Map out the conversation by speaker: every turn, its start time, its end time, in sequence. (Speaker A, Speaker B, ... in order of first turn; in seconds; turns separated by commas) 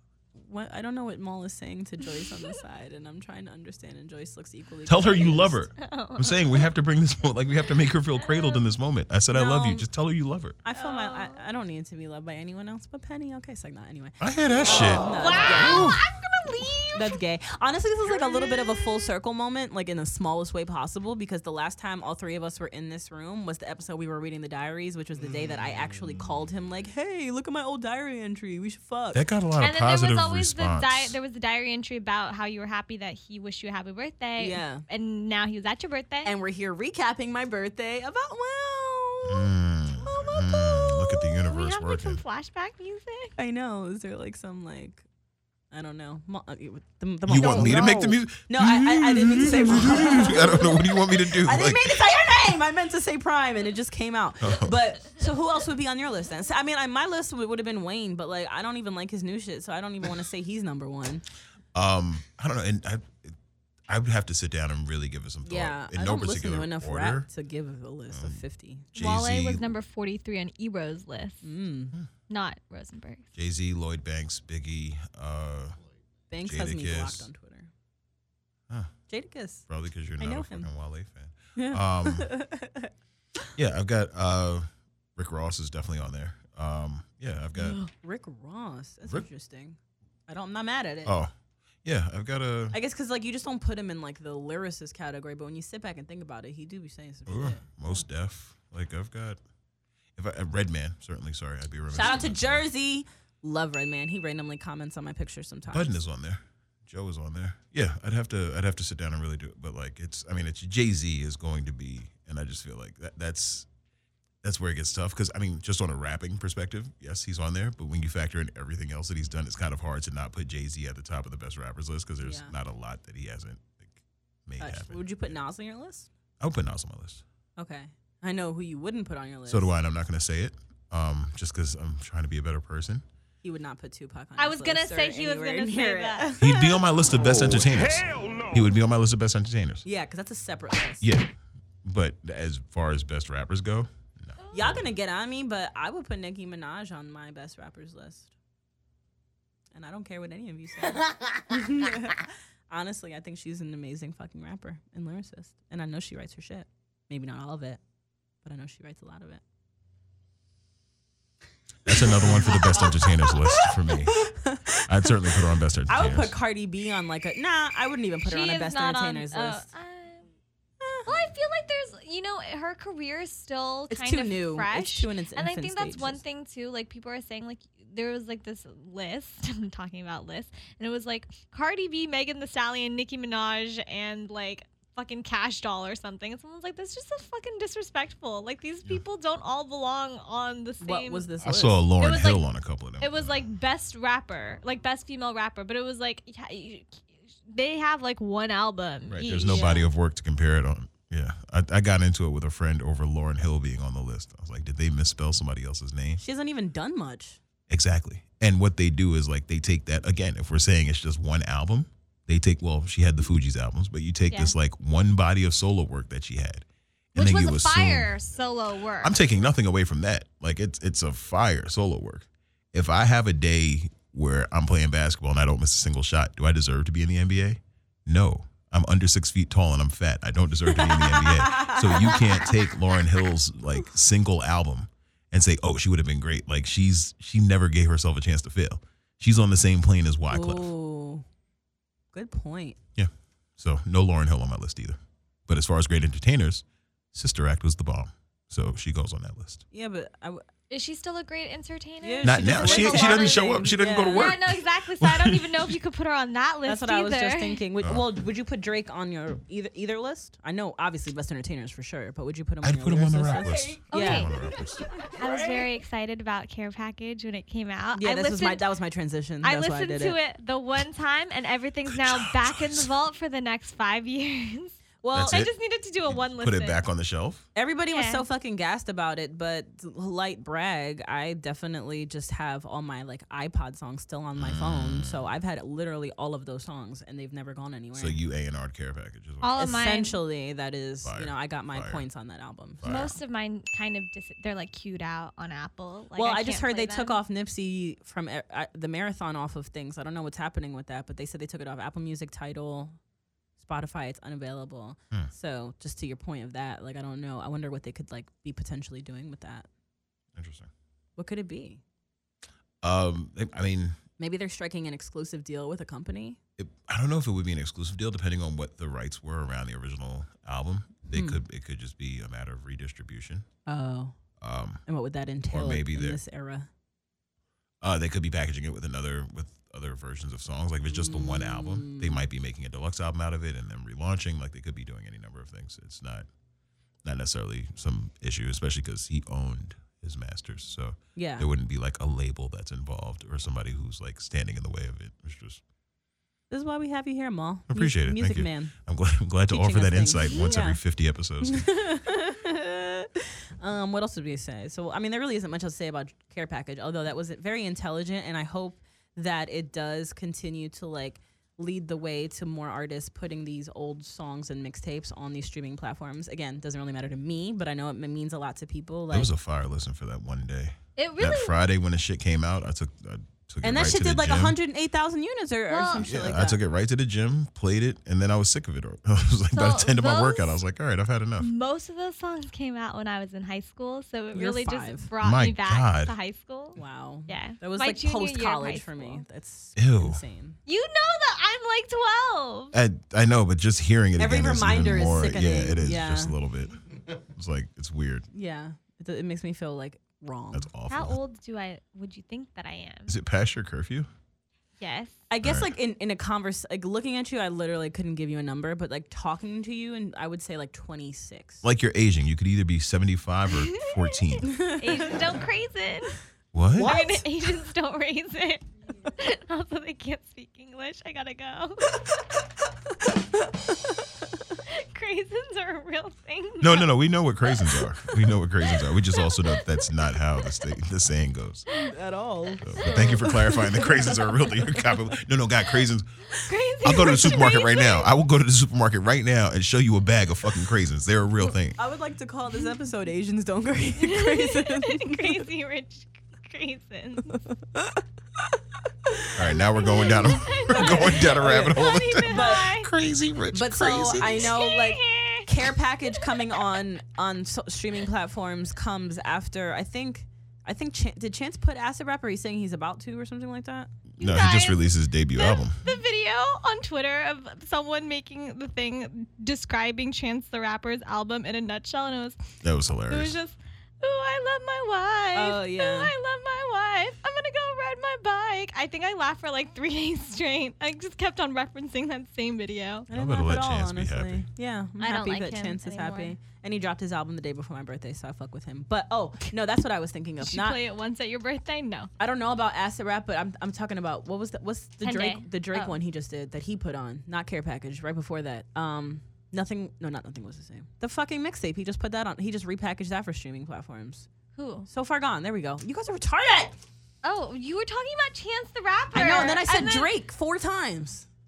Speaker A: 0.4-5.7, Speaker B: 4.9-10.6, Speaker C: 5.8-6.7, Speaker C: 8.2-8.6, Speaker A: 9.3-9.9, Speaker A: 10.7-16.0, Speaker C: 10.7-11.4, Speaker B: 14.2-16.0, Speaker C: 14.7-17.2, Speaker A: 16.9-29.2, Speaker C: 18.1-19.1, Speaker B: 29.1-31.2, Speaker C: 29.6-36.4, Speaker A: 34.4-34.8, Speaker A: 36.2-40.5, Speaker B: 39.2-42.2, Speaker C: 40.6-43.4, Speaker A: 43.4-45.0, Speaker A: 45.7-61.2, Speaker B: 47.3-52.0, Speaker B: 54.4-54.8, Speaker B: 61.7-63.4, Speaker B: 63.9-67.3, Speaker A: 65.4-68.9, Speaker B: 68.1-68.4, Speaker B: 68.9-69.7, Speaker C: 69.0-71.5, Speaker A: 71.4-72.0, Speaker C: 72.3-73.2, Speaker B: 73.3-75.8, Speaker A: 76.3-77.7, Speaker B: 76.4-77.3, Speaker A: 79.1-79.7, Speaker B: 79.7-82.3, Speaker A: 80.2-80.7, Speaker A: 81.6-82.9, Speaker B: 83.6-87.8, Speaker A: 87.6-91.2, Speaker B: 91.0-91.3, Speaker B: 91.8-92.8, Speaker A: 92.7-97.7, Speaker B: 97.3-99.4, Speaker B: 100.2-102.6, Speaker A: 101.9-105.9, Speaker B: 105.7-113.7, Speaker B: 114.4-125.1, Speaker A: 122.2-122.5, Speaker A: 124.6-126.1, Speaker B: 126.4-127.2, Speaker A: 127.6-129.7, Speaker B: 129.5-133.0, Speaker A: 133.4-136.6, Speaker C: 134.4-136.6, Speaker B: 136.4-139.8, Speaker A: 139.8-141.1, Speaker B: 141.0-141.3, Speaker B: 141.8-144.8, Speaker A: 144.5-148.3, Speaker A: 149.7-157.8, Speaker A: 158.4-159.4, Speaker B: 161.8-164.3, Speaker A: 161.9-165.4, Speaker B: 164.9-166.3, Speaker A: 165.9-169.7, Speaker C: 168.2-170.3, Speaker A: 170.8-171.1, Speaker C: 171.1-191.3, Speaker A: 173.9-176.2, Speaker A: 190.8-191.8, Speaker B: 191.4-193.5, Speaker C: 192.0-192.5, Speaker C: 193.0-199.8, Speaker B: 199.1-206.2, Speaker A: 199.5-199.9, Speaker A: 206.2-207.4, Speaker B: 207.7-218.1, Speaker C: 214.3-214.6, Speaker C: 217.2-219.2, Speaker B: 219.0-240.7, Speaker A: 230.7-232.6, Speaker A: 240.3-241.2, Speaker A: 242.1-242.8, Speaker B: 243.0-249.6, Speaker A: 249.7-250.4, Speaker C: 250.7-257.6, Speaker A: 252.0-254.3, Speaker B: 252.2-255.8, Speaker A: 256.7-264.3, Speaker B: 257.8-258.1, Speaker B: 262.6-265.0, Speaker C: 263.4-264.4, Speaker C: 265.0-268.6, Speaker A: 268.0-270.2, Speaker C: 269.4-276.8, Speaker B: 271.9-272.9, Speaker A: 275.0-275.5, Speaker B: 275.1-275.5, Speaker B: 276.1-277.4, Speaker A: 277.6-288.2, Speaker C: 277.9-278.2, Speaker B: 284.4-285.2, Speaker B: 287.9-289.5, Speaker C: 289.4-290.2, Speaker A: 289.6-293.1, Speaker B: 291.0-292.1, Speaker B: 292.8-293.2, Speaker C: 292.8-297.2, Speaker A: 296.2-302.9, Speaker A: 303.6-309.7, Speaker B: 310.4-310.7, Speaker A: 311.2-311.8, Speaker B: 312.8-314.0, Speaker A: 314.2-316.4, Speaker B: 316.6-323.5, Speaker A: 321.1-321.4, Speaker A: 323.7-324.1, Speaker B: 324.4-324.8, Speaker A: 324.9-326.7, Speaker B: 325.5-326.2, Speaker B: 327.8-336.3, Speaker A: 330.9-332.2, Speaker B: 337.0-345.6, Speaker A: 341.2-341.5, Speaker A: 346.5-348.7, Speaker B: 347.7-351.7, Speaker A: 349.5-350.8, Speaker A: 351.4-369.3, Speaker B: 369.1-374.6, Speaker C: 371.0-371.6, Speaker A: 373.6-376.6, Speaker C: 375.7-376.1, Speaker B: 376.0-381.5, Speaker C: 379.5-380.6, Speaker C: 381.4-389.2, Speaker A: 384.3-385.1, Speaker B: 385.2-386.1, Speaker A: 386.8-390.6, Speaker B: 389.8-390.2, Speaker C: 390.7-392.8, Speaker B: 392.7-398.3, Speaker A: 394.2-396.4, Speaker A: 398.3-400.7, Speaker B: 400.5-401.2, Speaker C: 400.9-403.1, Speaker B: 403.1-404.1, Speaker C: 404.8-405.2, Speaker A: 405.3-411.6, Speaker B: 405.4-405.7, Speaker B: 411.6-414.5, Speaker C: 413.6-416.2, Speaker A: 414.4-415.2, Speaker B: 416.5-417.2, Speaker C: 416.8-422.0, Speaker C: 424.7-426.9, Speaker B: 426.6-431.7, Speaker C: 429.1-429.6, Speaker A: 431.9-434.8, Speaker B: 432.6-436.3, Speaker C: 432.8-433.1, Speaker C: 436.3-438.1, Speaker B: 436.8-441.8, Speaker A: 441.8-445.4, Speaker C: 444.0-447.4, Speaker A: 447.3-448.0, Speaker B: 449.4-454.5, Speaker C: 449.6-452.9, Speaker A: 450.5-452.7, Speaker A: 453.5-463.9, Speaker C: 454.1-455.5, Speaker B: 464.2-465.8, Speaker C: 464.2-472.5, Speaker B: 472.6-473.4, Speaker C: 473.1-483.1, Speaker A: 475.3-476.1, Speaker A: 483.1-490.8, Speaker B: 483.1-484.5, Speaker C: 485.0-486.4, Speaker C: 490.4-492.1, Speaker A: 492.2-504.3, Speaker C: 495.0-496.0, Speaker C: 504.6-504.9, Speaker A: 504.9-506.8, Speaker C: 507.2-510.1, Speaker A: 509.1-511.3